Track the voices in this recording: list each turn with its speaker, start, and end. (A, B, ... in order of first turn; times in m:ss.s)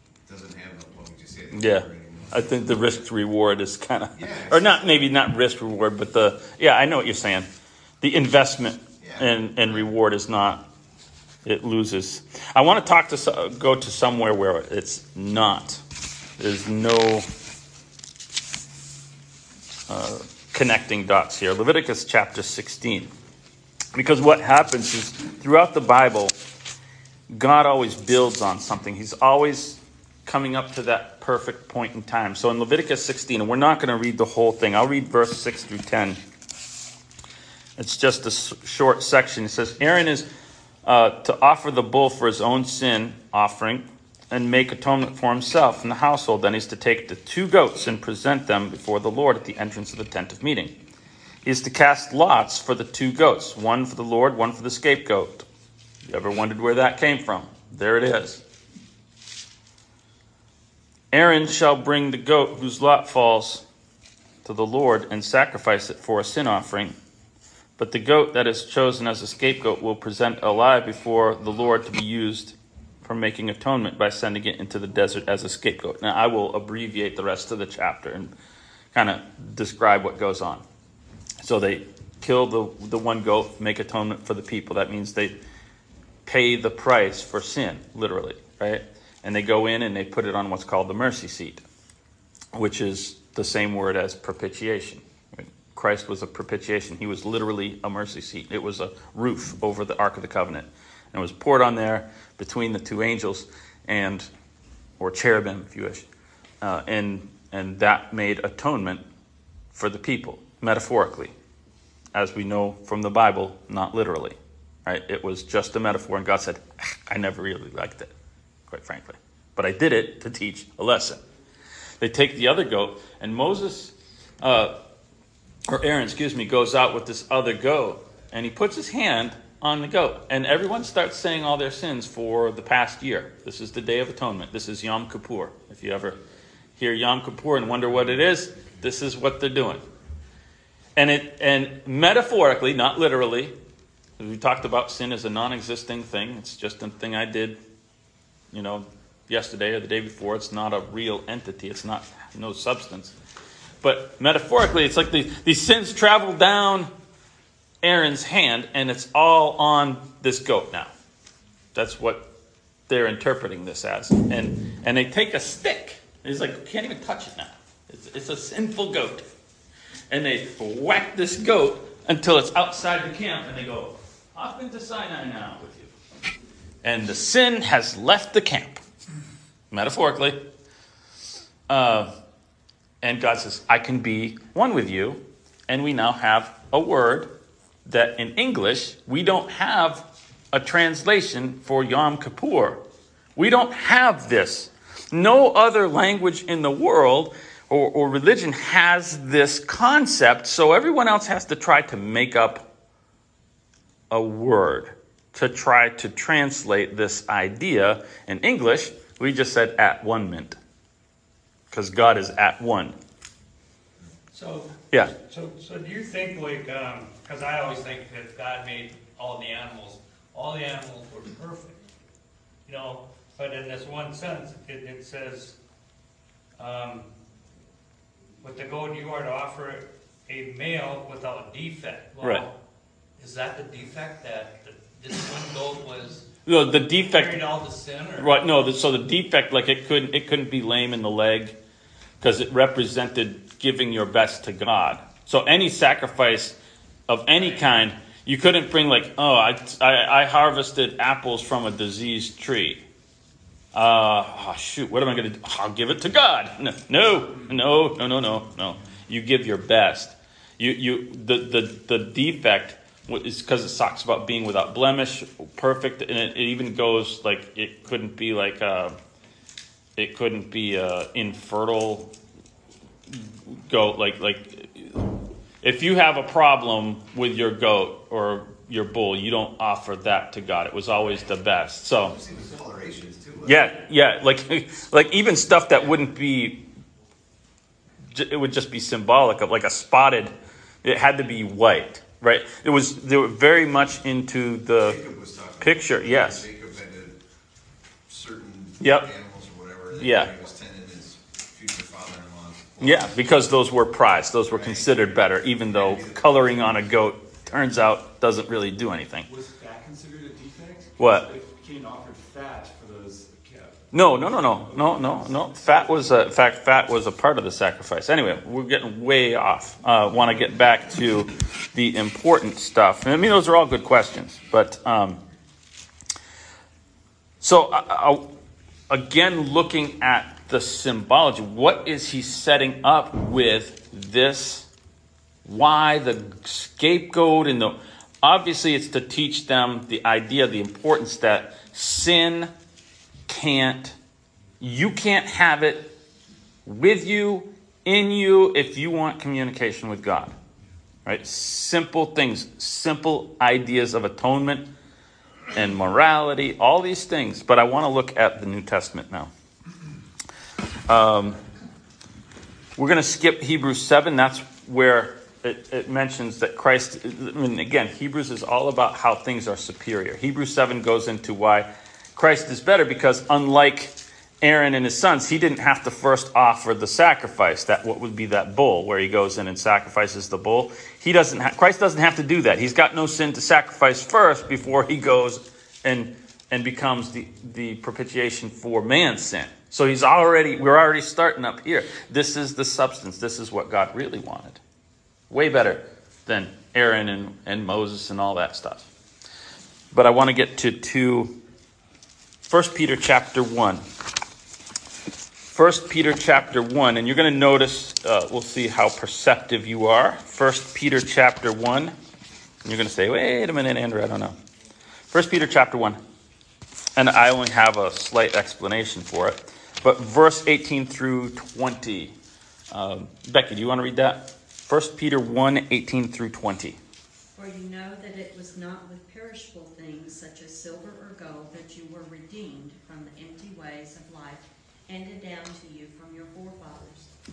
0:00.2-0:03.1 A
0:01.5-0:07.5 B
0:04.1-0:04.9 A
0:08.0-0:10.7 B
0:09.0-0:09.9 A
0:11.4-0:15.8 B
0:16.4-0:17.3 B
0:19.9-0:23.1 B
0:23.9-0:26.3 B
0:27.3-0:36.2 B
0:37.8-0:40.3 B
0:40.8-0:50.7 B
0:51.4-0:55.4 B
0:56.0-0:58.4 B
1:01.1-1:03.6 B
1:04.4-1:06.9 B
1:07.8-1:18.3 B
1:18.9-1:20.6 B
1:21.4-1:25.4 B
1:26.2-1:31.6 B
1:32.5-1:44.3 B
1:45.0-1:46.0 B
1:46.6-1:49.0 B
1:49.7-1:51.3 B
1:52.1-1:58.1 B
1:58.7-2:01.2 B
2:02.0-2:04.8 B
2:05.7-2:16.2 B
2:16.8-2:19.8 B
2:21.0-2:23.5 B
2:24.2-2:27.6 B
2:28.5-2:33.1 B
2:33.8-2:36.9 B
2:37.8-2:40.9 B
2:41.7-2:42.3 B
2:42.9-2:49.2 B
2:50.1-2:55.9 B
2:56.8-2:58.8 B
2:59.7-3:00.4 B
3:01.7-3:02.1 B
3:03.0-3:12.8 B
3:13.4-3:22.7 B
3:24.1-3:30.6 B
3:31.7-3:33.0 B
3:34.3-3:41.8 C
3:42.6-3:45.6 C
3:46.6-3:47.1 C
3:48.4-3:52.6 C
3:52.2-3:52.5 B
3:53.2-3:56.3 C
3:56.4-3:57.4 B
3:57.0-3:58.4 C
3:58.2-4:01.6 B
4:02.2-4:06.6 B
4:07.1-4:12.8 B
4:07.3-4:07.8 C
4:13.7-4:29.0 B
4:30.0-4:32.1 B
4:33.1-4:42.2 B
4:42.0-4:43.7 A
4:43.4-4:46.6 B
4:48.1-4:55.0 B
4:54.8-4:57.2 A
4:55.6-4:56.4 B
4:58.1-5:03.4 A
4:58.8-4:59.1 B
4:59.9-5:00.3 B
5:02.8-5:09.3 B
5:04.5-5:06.5 A
5:09.2-5:16.4 D
5:11.0-5:11.3 B
5:13.9-5:25.2 B
5:27.4-5:28.3 B
5:28.9-5:34.7 B
5:35.4-5:42.5 B
5:43.3-5:44.0 B
5:44.6-5:45.9 B
5:46.6-5:50.4 B
5:51.0-5:54.7 B
5:55.5-5:59.3 B
6:00.9-6:01.4 B
6:02.8-6:34.6 B
6:35.3-6:38.9 B
6:39.9-6:41.4 B
6:42.5-6:43.8 B
6:45.5-6:51.9 B
6:52.6-6:54.4 B
6:55.1-6:56.0 B
6:57.0-7:02.1 B
7:02.7-7:06.8 B
7:07.3-7:17.1 E